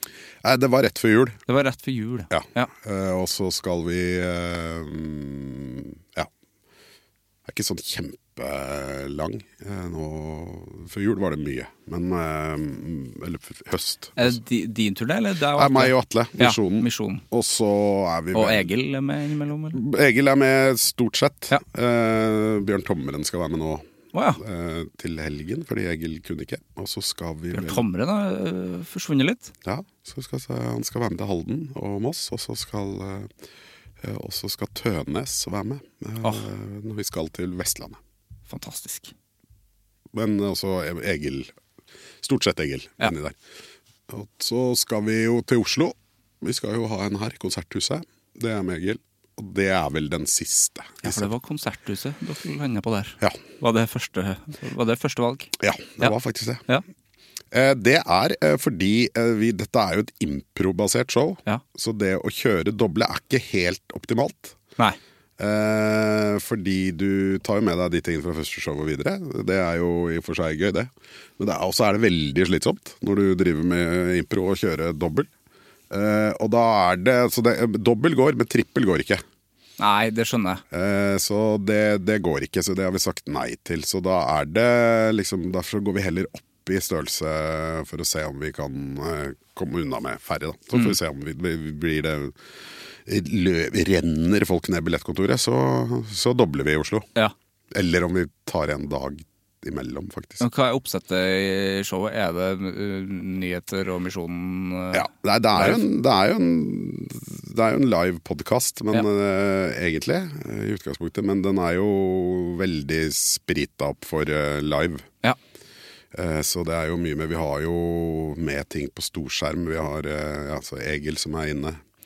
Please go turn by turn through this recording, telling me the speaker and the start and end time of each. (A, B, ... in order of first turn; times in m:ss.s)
0:00.4-0:01.4 A
0:01.5-0:02.7 B
0:02.3-0:06.3 A
0:07.4-0:14.4 A
0:14.2-0:17.2 B
0:15.5-0:18.7 A
0:18.3-0:19.8 B
0:19.7-0:23.8 A
0:24.1-0:24.4 B
0:24.4-0:27.8 A
0:27.5-0:29.5 B
0:29.6-0:33.3 A
0:34.0-0:38.0 A
0:38.5-0:39.1 B
0:40.1-0:41.5 A
0:42.2-0:43.4 A
0:44.1-0:51.3 A
0:51.0-0:56.1 B
0:55.6-0:56.6 A
0:57.5-1:04.6 A
1:05.4-1:15.3 A
1:15.9-1:19.2 A
1:19.8-1:20.6 B
1:20.7-1:32.4 A
1:33.0-1:37.1 A
1:37.7-1:40.4 A
1:40.4-1:45.8 B
1:44.9-1:55.1 A
1:56.1-2:01.8 A